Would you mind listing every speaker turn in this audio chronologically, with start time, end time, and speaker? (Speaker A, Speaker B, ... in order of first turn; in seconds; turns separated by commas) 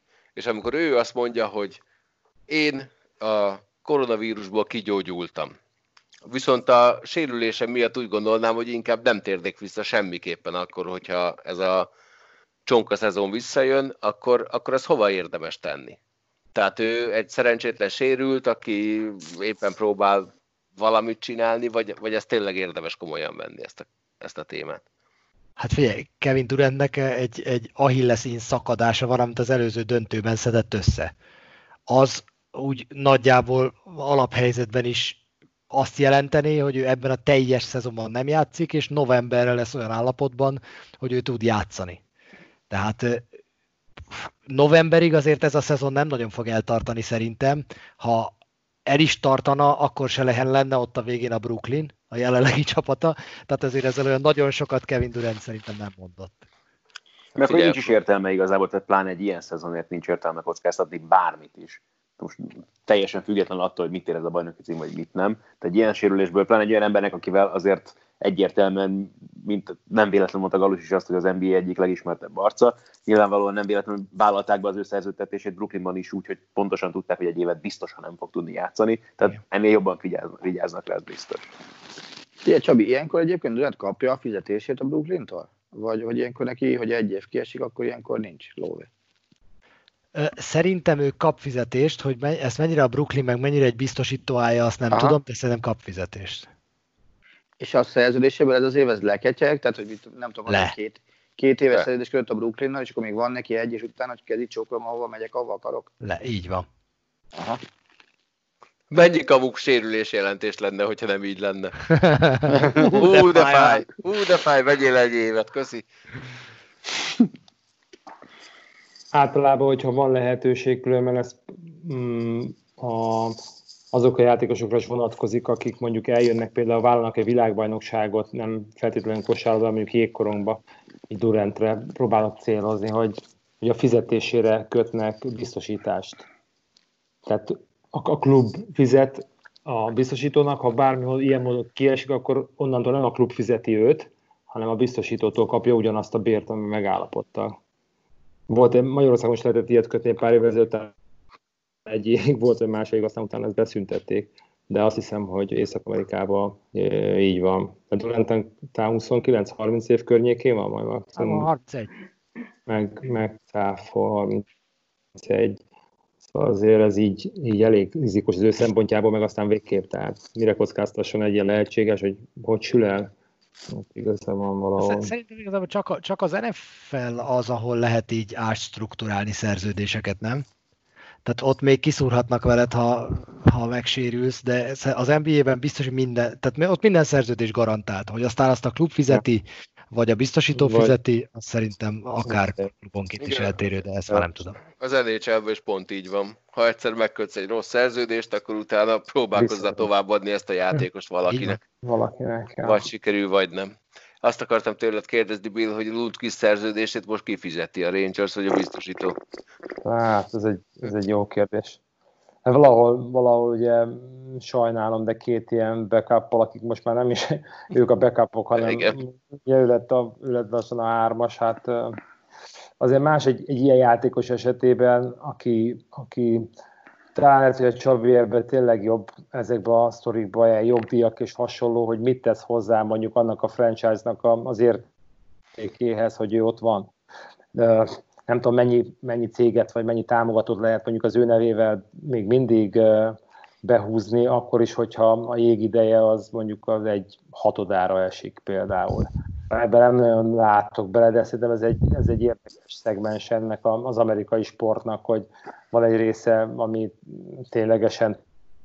Speaker A: 0.3-1.8, Speaker A: 2.5-5.5, Speaker A: 6.3-11.9, Speaker A: 12.7-16.0, Speaker A: 16.5-24.8, Speaker B: 25.6-31.1, Speaker B: 31.9-35.2, Speaker B: 35.7-42.0, Speaker B: 42.7-43.2, Speaker B: 44.1-48.3, Speaker B: 48.9-56.4, Speaker C: 57.3-81.5, Speaker A: 57.4-57.9, Speaker D: 82.4-88.9, Speaker B: 90.1-96.5, Speaker D: 94.9-95.2, Speaker D: 97.6-105.9, Speaker B: 100.5-100.7, Speaker B: 106.0-106.7, Speaker D: 107.3-107.6, Speaker A: 108.9-111.7, Speaker B: 111.9-113.8, Speaker A: 112.8-115.8, Speaker E: 119.1-123.4, Speaker E: 123.9-136.3, Speaker E: 137.2-147.6, Speaker E: 148.5-150.9, Speaker E: 151.8-161.5, Speaker B: 161.2-161.9, Speaker E: 162.7-164.4, Speaker E: 165.1-165.6, Speaker E: 166.2-173.1, Speaker E: 173.7-175.1, Speaker B: 174.8-180.4, Speaker B: 181.2-194.6, Speaker E: 190.5-190.9, Speaker E: 192.2-192.6, Speaker A: 193.2-193.5, Speaker A: 194.8-201.6, Speaker E: 199.3-199.9, Speaker E: 201.3-202.8, Speaker A: 202.6-209.2, Speaker E: 209.8-211.8, Speaker E: 212.4-222.0, Speaker A: 218.6-219.0, Speaker E: 222.8-226.5, Speaker E: 227.1-234.8, Speaker E: 235.6-236.9, Speaker E: 237.5-258.2